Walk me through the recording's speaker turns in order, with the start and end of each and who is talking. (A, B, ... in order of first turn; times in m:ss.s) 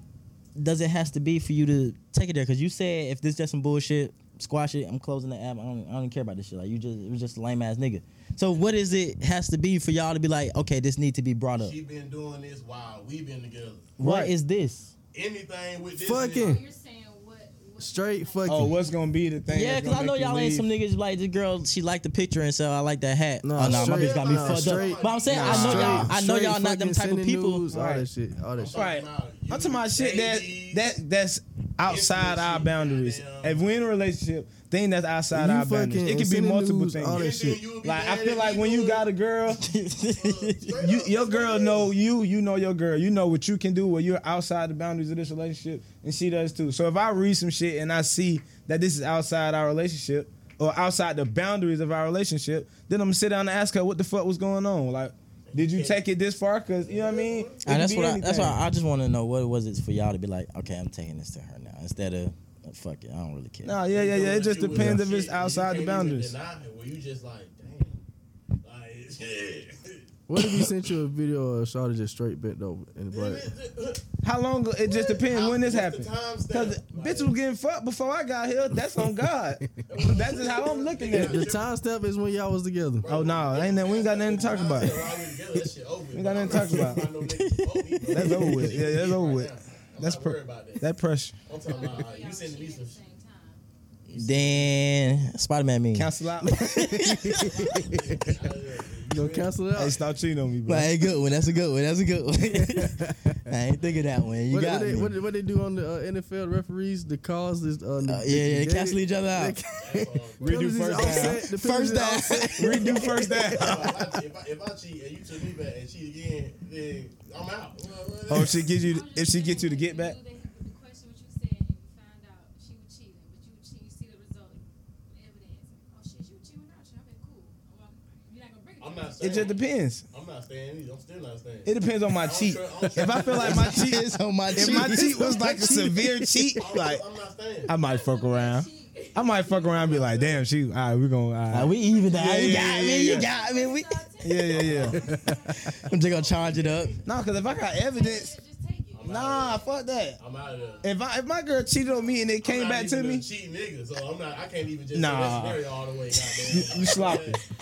0:00.6-0:11.8 A
0:11.6-0:13.9 B
0:14.0-0:14.3 C
0:14.0-0:14.9 A
0:15.1-0:16.6 B
0:16.0-0:16.6 D
0:16.3-0:18.8 E
0:17.8-0:18.8 D
0:18.4-0:20.7 C
0:19.5-0:27.6 A
0:23.4-0:28.8 D
0:23.6-0:26.1 B
0:25.4-0:26.1 C
0:27.7-0:28.1 C
0:28.6-0:30.9 B
0:28.7-0:39.6 C
0:31.8-0:33.8 B
0:35.3-0:37.6 D
0:37.1-0:39.1 B
0:39.6-0:40.8 A
0:40.1-0:41.9 B
0:40.8-0:58.6 C
0:55.5-0:56.0 B
0:56.8-0:57.6 B
0:57.6-1:03.8 A
1:03.6-1:06.3 C
1:03.9-1:08.0 B
1:08.6-1:10.8 B
1:10.3-1:13.4 D
1:13.1-1:14.0 B
1:14.2-1:21.5 C
1:14.8-1:17.3 B
1:19.9-1:21.7 B
1:21.1-1:23.1 D
1:23.0-1:30.9 B
1:23.1-1:25.1 C
1:26.1-1:27.1 C
1:27.2-1:28.6 A
1:28.1-1:31.3 C
1:31.5-1:33.0 B
1:31.6-1:33.6 E
1:34.1-1:37.8 A
1:34.1-1:34.8 B
1:35.9-1:36.7 C
1:36.5-1:38.3 D
1:37.1-1:39.6 B
1:39.1-1:40.0 D
1:39.7-1:40.9 C
1:40.7-1:45.1 A
1:42.5-1:43.4 D
1:44.5-1:54.0 D
1:48.0-1:49.6 A
1:49.8-1:51.2 B
1:50.4-1:51.4 C
1:51.0-1:53.2 A
1:52.6-1:53.9 C
1:53.3-1:58.7 B
1:58.3-2:00.2 C
1:58.7-2:09.6 E
2:08.8-2:13.9 B
2:09.2-2:10.0 C
2:11.6-2:17.0 C
2:13.4-2:15.4 A
2:14.9-2:16.6 D
2:16.6-2:17.8 B
2:17.7-2:23.2 C
2:17.7-2:20.0 E
2:19.5-2:20.4 B
2:21.5-2:24.0 A
2:21.6-2:26.3 E
2:24.2-2:25.0 C
2:24.5-2:25.2 B
2:25.7-2:27.0 A
2:25.8-2:27.0 B
2:27.0-2:28.4 C
2:27.2-2:29.8 E
2:28.9-2:29.7 B
2:29.0-2:30.2 C
2:30.2-2:30.9 B
2:30.3-2:31.0 E
2:30.8-2:33.2 C
2:31.8-2:32.3 E
2:32.4-2:37.4 B
2:34.9-2:35.6 C
2:36.4-2:37.4 C